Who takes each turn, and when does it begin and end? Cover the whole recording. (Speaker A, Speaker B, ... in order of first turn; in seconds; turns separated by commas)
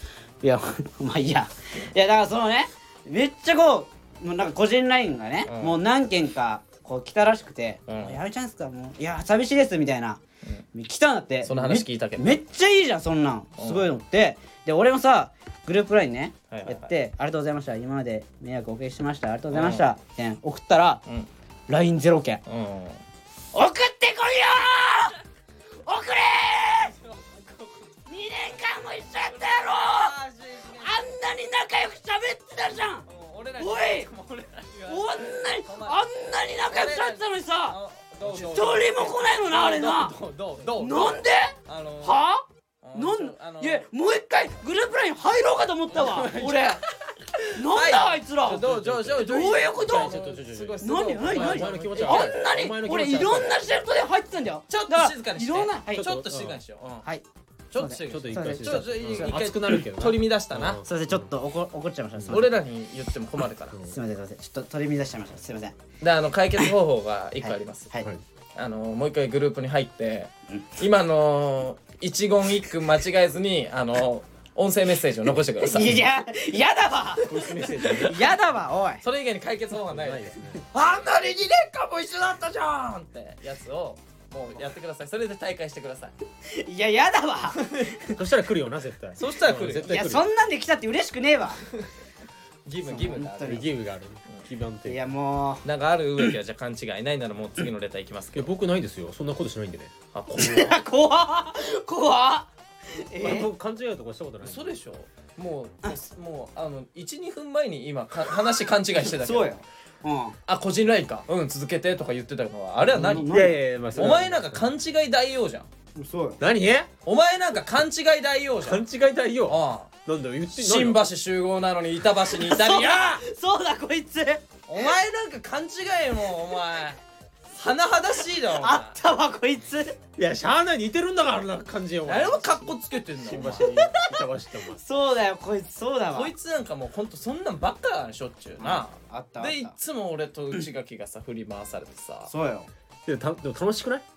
Speaker A: 0.4-10.2, Speaker B: 5.5-5.8, Speaker B: 7.9-8.2, Speaker A: 10.7-21.0, Speaker B: 11.4-12.4, Speaker B: 13.6-13.9, Speaker B: 16.5-16.9, Speaker B: 19.5-19.8, Speaker A: 21.7-22.4, Speaker B: 22.4-23.0, Speaker A: 23.5-25.1, Speaker A: 25.9-26.9, Speaker B: 26.7-31.0, Speaker A: 28.1-30.1, Speaker A: 30.8-33.0, Speaker B: 33.0-42.2, Speaker A: 33.6-34.1, Speaker A: 34.9-40.1, Speaker A: 40.8-42.4, Speaker B: 42.8-43.9, Speaker A: 42.9-46.8, Speaker B: 45.9-46.8, Speaker B: 47.4-52.4, Speaker A: 47.5-50.1, Speaker C: 48.5-53.6, Speaker A: 50.8-56.0, Speaker B: 54.7-57.0, Speaker C: 55.9-56.6, Speaker B: 57.7-60.8, Speaker A: 57.8-59.3, Speaker C: 57.9-61.3, Speaker A: 60.8-62.5, Speaker C: 62.2-62.4, Speaker B: 62.3-63.8, Speaker A: 63.9-65.8, Speaker B: 66.0-67.9, Speaker A: 67.4-68.1, Speaker B: 68.5-76.0, Speaker A: 75.6-79.0, Speaker C: 77.2-78.3, Speaker B: 79.0-86.1, Speaker C: 79.9-80.6, Speaker A: 86.5-88.1, Speaker B: 87.6-88.0, Speaker C: 88.1-90.3, Speaker B: 89.2-90.0, Speaker A: 89.9-91.6, Speaker B: 92.7-93.7, Speaker A: 92.8-93.7, Speaker C: 93.4-95.0, Speaker A: 94.9-95.6, Speaker B: 95.6-98.5, Speaker C: 98.3-99.9, Speaker B: 100.1-100.8, Speaker A: 100.3-103.5, Speaker C: 103.2-104.7, Speaker B: 104.4-109.6, Speaker A: 109.1-110.3, Speaker B: 110.5-113.3, Speaker A: 112.9-113.6, Speaker C: 113.0-114.7, Speaker B: 113.9-115.7, Speaker A: 116.0-116.4, Speaker C: 116.4-116.9, Speaker B: 117.0-118.8, Speaker C: 118.6-121.0, Speaker B: 119.5-119.9, Speaker B: 120.5-123.2, Speaker A: 122.3-124.9, Speaker B: 124.7-127.0, Speaker B: 127.5-128.9, Speaker A: 128.5-130.0, Speaker C: 130.2-132.7, Speaker B: 132.1-133.7, Speaker C: 133.2-134.8, Speaker A: 133.7-134.1, Speaker A: 134.8-136.3, Speaker B: 136.1-142.3, Speaker A: 138.6-139.7, Speaker A: 142.3-142.7, Speaker C: 143.1-144.0